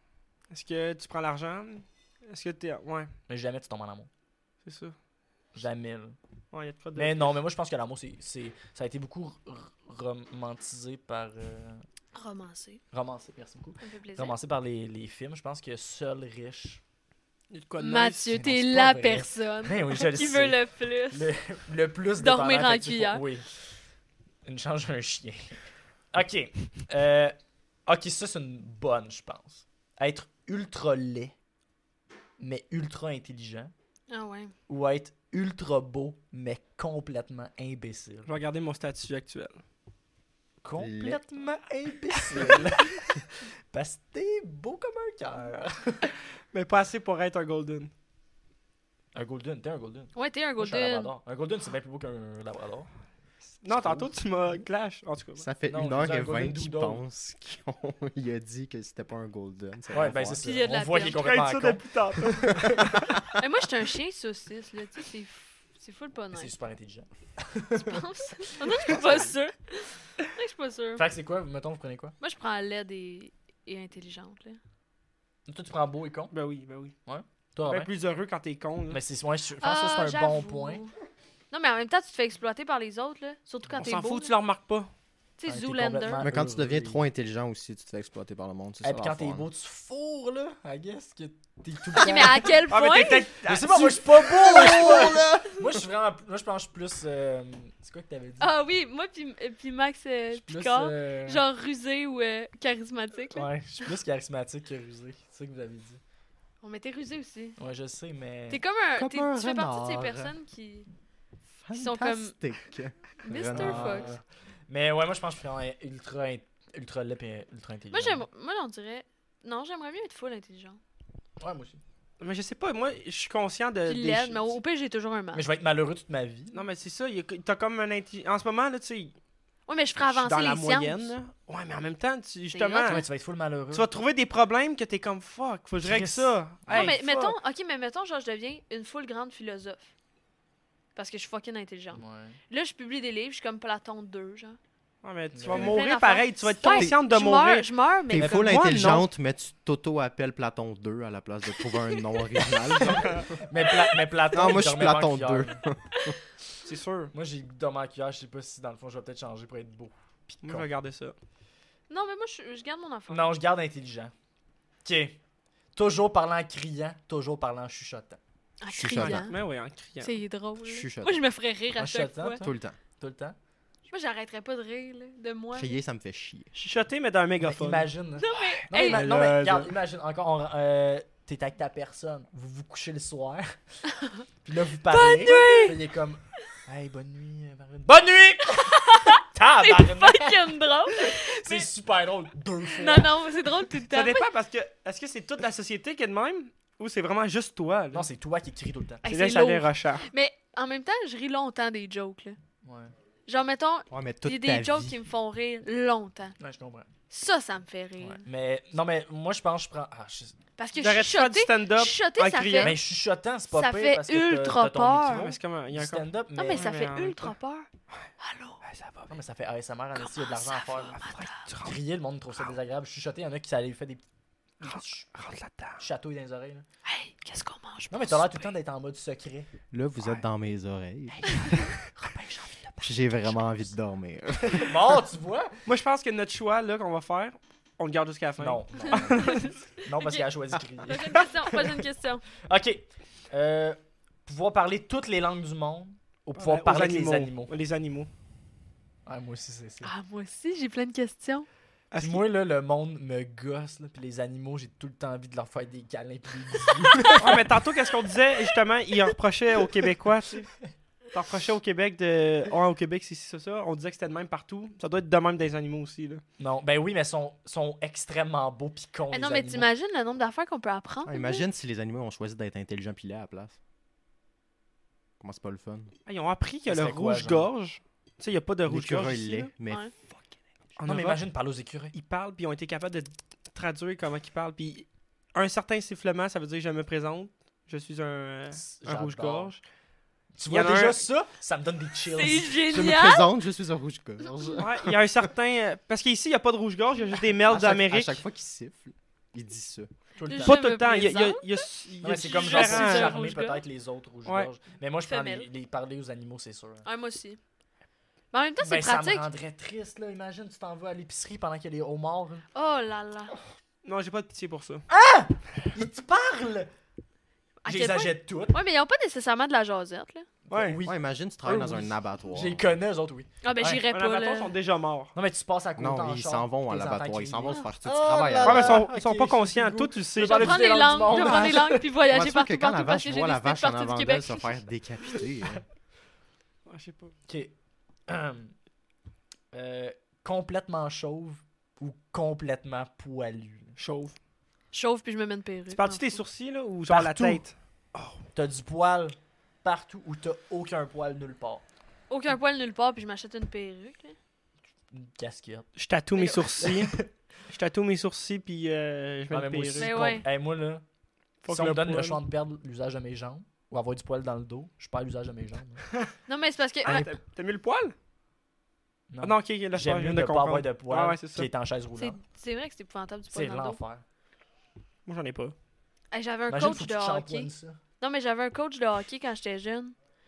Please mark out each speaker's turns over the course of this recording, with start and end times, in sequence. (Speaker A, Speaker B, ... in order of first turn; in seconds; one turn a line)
Speaker A: 0.5-3.1
Speaker B: 3.3-4.1
Speaker A: 4.6-5.0
Speaker B: 5.5-6.2
Speaker A: 6.5-7.3
Speaker B: 7.0-11.8
Speaker C: 12.1-12.8
Speaker B: 12.9-16.8
Speaker C: 13.8-14.3
Speaker A: 17.5-18.3
Speaker C: 17.8-21.3
Speaker B: 18.3-23.7
Speaker C: 22.2-23.2
Speaker B: 24.4-25.6
Speaker B: 26.1-31.3
Speaker B: 32.4-33.7
Speaker C: 34.1-34.5
Speaker B: 34.7-38.3
Speaker A: 38.2-39.6
Speaker B: 40.6-46.1
Speaker D: 40.8-41.2
Speaker A: 46.5-47.9
Speaker B: 49.1-52.9
Speaker C: 50.1-51.1
Speaker A: 53.6-55.5
Speaker D: 55.4-60.5
Speaker B: 55.7-57.0
Speaker B: 59.9-63.0
Speaker C: 60.4-61.2
Speaker A: 61.0-62.7
Speaker C: 63.3-66.5
Speaker B: 66.3-68.0
Speaker C: 67.7-71.0
Speaker B: 68.6-69.2
Speaker B: 71.0-72.1
Speaker C: 72.2-74.6
Speaker B: 75.5-76.3
Speaker A: 76.3-76.9
Speaker B: 77.0-77.9
Speaker A: 77.7-79.0
Speaker B: 78.9-80.8
Speaker C: 79.6-80.9
Speaker C: 81.5-84.3
Speaker A: 83.8-84.9
Speaker C: 85.4-86.2
Speaker B: 85.5-87.0
Speaker D: 86.2-89.5
Speaker B: 88.8-92.6
Speaker C: 91.9-93.3
Speaker A: 92.7-94.9
Speaker B: 93.4-98.5
Speaker D: 94.3-95.8
Speaker C: 98.4-103.5
Speaker B: 100.4-101.4
Speaker B: 103.3-106.0
Speaker C: 106.6-107.6
Speaker B: 107.6-108.6
Speaker C: 108.5-110.9
Speaker D: 109.0-110.3
Speaker D: 111.6-114.2
Speaker C: 111.7-112.3
Speaker C: 113.2-114.1
Speaker B: 113.5-118.2
Speaker C: 117.9-120.8
Speaker B: 121.4-121.8
Speaker A: 122.2-124.6
Speaker C: 123.8-125.5
Speaker B: 125.3-126.6
Speaker A: 126.5-129.1
Speaker C: 129.7-131.1
Speaker A: 130.0-133.0
Speaker C: 132.5-133.0
Speaker B: 132.9-133.9
Speaker A: 133.7-137.4
Speaker B: 135.8-136.9
Speaker C: 136.7-139.9
Speaker C: 140.9-144.6
Speaker B: 141.9-142.4
Speaker A: 145.0-147.7
Speaker B: 145.3-145.8
Speaker C: 145.5-148.7
Speaker D: 146.6-146.9
Speaker D: 148.1-153.3
Speaker A: 148.2-149.1
Speaker B: 152.8-155.6
Speaker A: 152.9-153.3
Speaker D: 154.3-156.2
Speaker A: 156.6-157.1
Speaker B: 157.1-160.7
Speaker A: 160.4-161.1
Speaker C: 161.9-163.3
Speaker B: 163.1-164.1
Speaker B: 164.8-165.2
Speaker B: 165.7-168.2
Speaker C: 168.6-169.4
Speaker D: 168.7-169.3
Speaker A: 169.0-170.1
Speaker C: 170.0-172.5
Speaker D: 170.6-171.2
Speaker B: 171.8-173.3
Speaker D: 172.4-172.8
Speaker C: 173.9-175.8
Speaker D: 175.5-176.5
Speaker A: 176.5-177.9
Speaker B: 177.4-183.6
Speaker C: 178.2-179.2
Speaker A: 178.7-179.7
Speaker B: 184.4-193.1
Speaker C: 184.9-185.8
Speaker A: 185.2-185.7
Speaker C: 188.5-191.7
Speaker C: 192.7-194.3
Speaker A: 193.9-198.1
Speaker B: 197.9-199.1
Speaker C: 199.0-202.4
Speaker A: 199.0-200.1
Speaker B: 202.6-202.9
Speaker C: 203.3-206.4
Speaker D: 203.9-205.0
Speaker B: 206.4-206.9
Speaker C: 207.1-208.2
Speaker B: 208.0-210.3
Speaker C: 210.6-212.8
Speaker A: 210.8-212.8
Speaker B: 212.6-216.7
Speaker C: 213.5-215.3
Speaker A: 215.1-217.3
Speaker C: 216.3-217.7
Speaker C: 218.2-218.6
Speaker A: 218.6-219.2
Speaker B: 219.1-221.0
Speaker C: 219.9-221.4
Speaker A: 220.9-221.8
Speaker B: 221.6-224.0
Speaker B: 224.6-225.1
Speaker A: 224.6-225.8
Speaker B: 225.8-226.6
Speaker C: 226.8-228.5
Speaker B: 227.9-230.2
Speaker D: 229.7-231.7
Speaker B: 231.2-233.6
Speaker D: 232.8-234.9
Speaker B: 234.6-235.7
Speaker A: 235.7-239.4
Speaker B: 238.4-241.8
Speaker C: 238.9-240.3
Speaker C: 240.8-242.2
Speaker B: 242.4-247.5
Speaker A: 246.4-248.1
Speaker B: 249.1-249.9
Speaker C: 249.8-251.5
Speaker A: 251.9-252.2
Speaker B: 252.0-257.4
Speaker A: 257.1-260.5
Speaker A: 261.1-266.2
Speaker B: 266.4-269.7
Speaker C: 269.1-271.4
Speaker D: 271.1-273.6
Speaker D: 275.2-275.9
Speaker A: 276.1-279.5
Speaker B: 276.7-277.5
Speaker D: 278.6-279.9
Speaker A: 280.8-281.2
Speaker B: 280.9-281.9
Speaker A: 281.9-289.6
Speaker B: 288.5-289.5
Speaker B: 290.4-292.6
Speaker A: 290.5-291.0
Speaker C: 292.1-293.3
Speaker D: 292.7-294.9
Speaker A: 294.6-298.1
Speaker D: 297.5-299.9
Speaker B: 300.2-300.6
Speaker C: 300.3-301.6
Speaker A: 300.4-303.2
Speaker B: 302.0-306.9
Speaker C: 302.2-303.6
Speaker A: 304.2-304.5
Speaker C: 305.1-305.5
Speaker C: 306.8-307.4
Speaker C: 308.3-309.2
Speaker B: 308.6-312.4
Speaker C: 312.5-313.3
Speaker A: 313.8-314.9
Speaker B: 314.9-316.7
Speaker C: 317.6-320.3
Speaker B: 317.6-318.6
Speaker B: 320.4-323.8
Speaker A: 320.5-320.8
Speaker D: 320.8-322.6
Speaker C: 323.4-324.5
Speaker A: 323.9-325.1
Speaker B: 325.1-331.9
Speaker D: 325.8-328.9
Speaker A: 328.4-330.6
Speaker C: 330.2-334.6
Speaker D: 332.1-335.6
Speaker A: 336.6-337.1
Speaker B: 337.3-337.5
Speaker B: 338.1-338.5
Speaker B: 339.5-343.8
Speaker A: 343.8-344.1
Speaker C: 344.7-346.2
Speaker A: 345.7-348.1
Speaker B: 346.9-347.4
Speaker B: 348.3-351.6
Speaker C: 352.1-354.1
Speaker B: 354.9-355.7
Speaker A: 355.8-359.9
Speaker B: 356.6-357.1
Speaker B: 359.3-360.8
Speaker C: 359.8-360.2
Speaker A: 361.4-362.2
Speaker B: 361.5-365.8
Speaker C: 366.3-367.1
Speaker A: 366.8-367.9
Speaker B: 366.9-367.1
Speaker B: 369.1-372.2
Speaker A: 369.2-371.5
Speaker C: 371.9-373.8
Speaker B: 373.3-374.0
Speaker A: 375.1-375.5
Speaker C: 376.1-379.9
Speaker B: 376.5-377.8